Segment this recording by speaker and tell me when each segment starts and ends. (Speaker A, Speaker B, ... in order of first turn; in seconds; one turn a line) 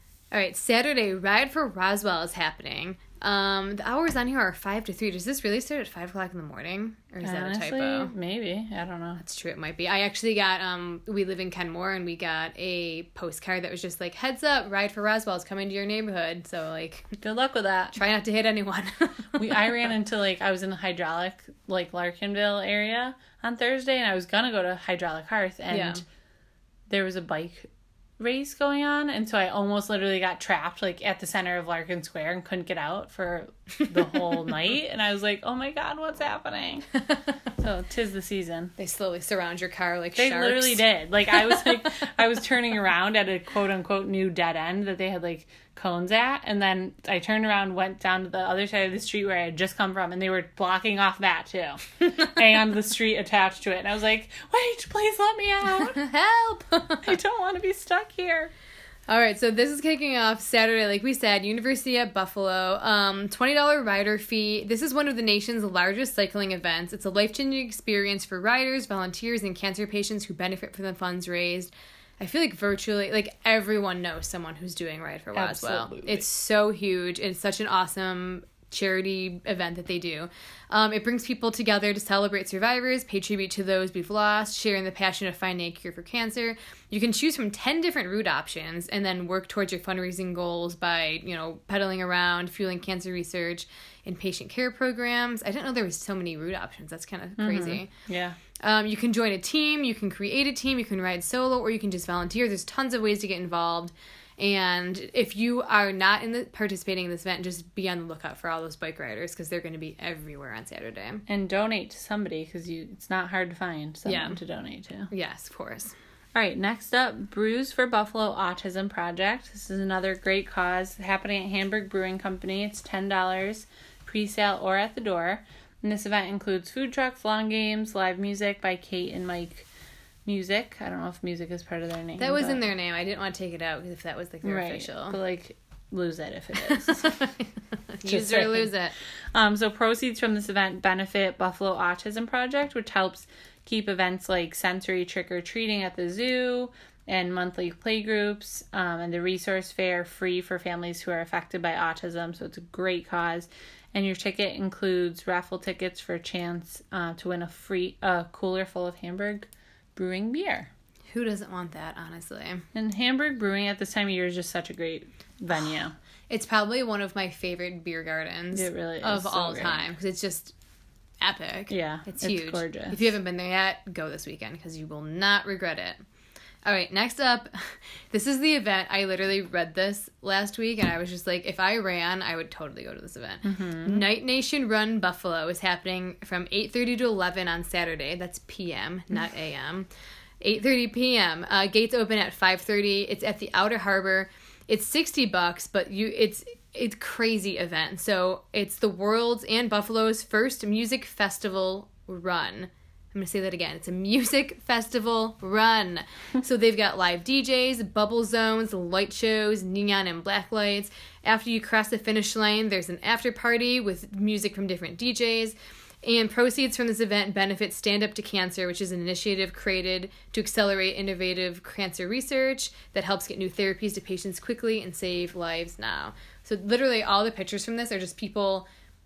Speaker A: 0.3-8.1
Speaker B: 7.2-9.2
Speaker A: 9.2-17.2
Speaker B: 17.2-18.0
Speaker A: 17.9-19.9
Speaker B: 19.4-26.0
Speaker A: 25.7-26.0
Speaker B: 26.9-36.9
Speaker B: 37.6-38.7
Speaker A: 38.8-40.8
Speaker B: 40.2-56.0
Speaker A: 56.0-57.1
Speaker B: 57.0-58.5
Speaker A: 59.1-97.9
Speaker B: 75.3-76.2
Speaker B: 97.4-98.4
Speaker A: 98.6-111.2
Speaker B: 111.3-115.1
Speaker A: 114.1-114.4
Speaker A: 115.1-115.9
Speaker B: 116.3-129.7
Speaker B: 130.2-132.7
Speaker A: 132.2-135.2
Speaker B: 134.4-137.2
Speaker A: 136.6-138.9
Speaker B: 138.1-138.7
Speaker B: 139.3-160.7
Speaker A: 161.1-162.7
Speaker B: 162.7-165.9
Speaker A: 166.3-170.5
Speaker B: 168.5-169.9
Speaker A: 171.2-176.0
Speaker B: 171.7-173.1
Speaker A: 176.7-189.9
Speaker B: 183.4-184.1
Speaker A: 190.4-228.7